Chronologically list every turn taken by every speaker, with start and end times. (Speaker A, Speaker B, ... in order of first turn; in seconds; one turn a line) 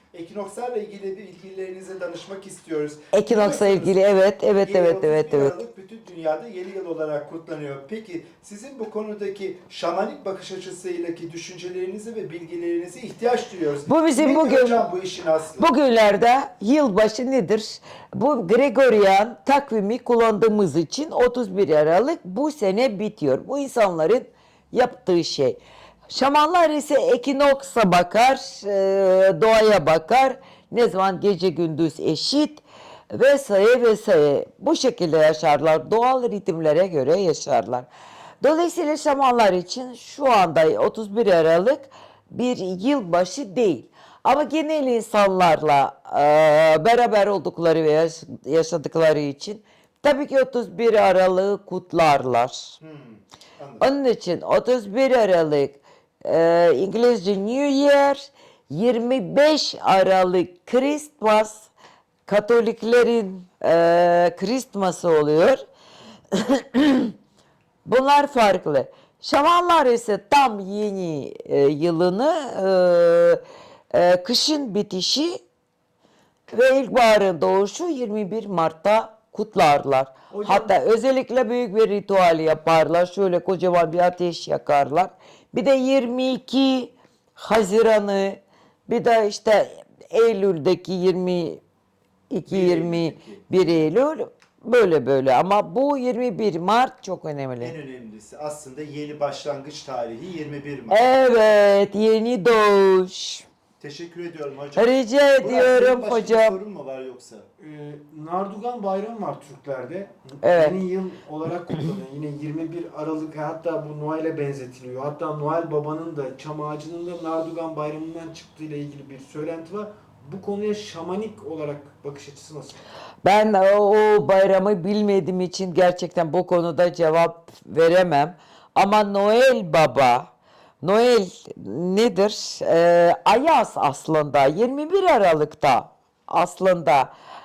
Speaker A: 0.1-4.0
Speaker B: 3.1-5.6
Speaker A: 4.6-15.7
Speaker B: 13.9-14.9
Speaker B: 15.6-37.9
Speaker B: 38.4-52.7
Speaker A: 52.8-53.9
Speaker B: 53.8-61.7
Speaker B: 62.3-65.6
Speaker B: 66.3-67.1
Speaker B: 67.9-75.4
Speaker B: 76.5-91.6
Speaker C: 80.3-80.7
Speaker B: 92.3-97.8
Speaker A: 92.5-93.8
Speaker A: 97.6-101.0
Speaker B: 100.9-103.5
Speaker A: 103.8-107.5
Speaker B: 104.8-106.6
Speaker C: 107.6-122.8
Speaker B: 110.4-110.8
Speaker B: 123.2-137.1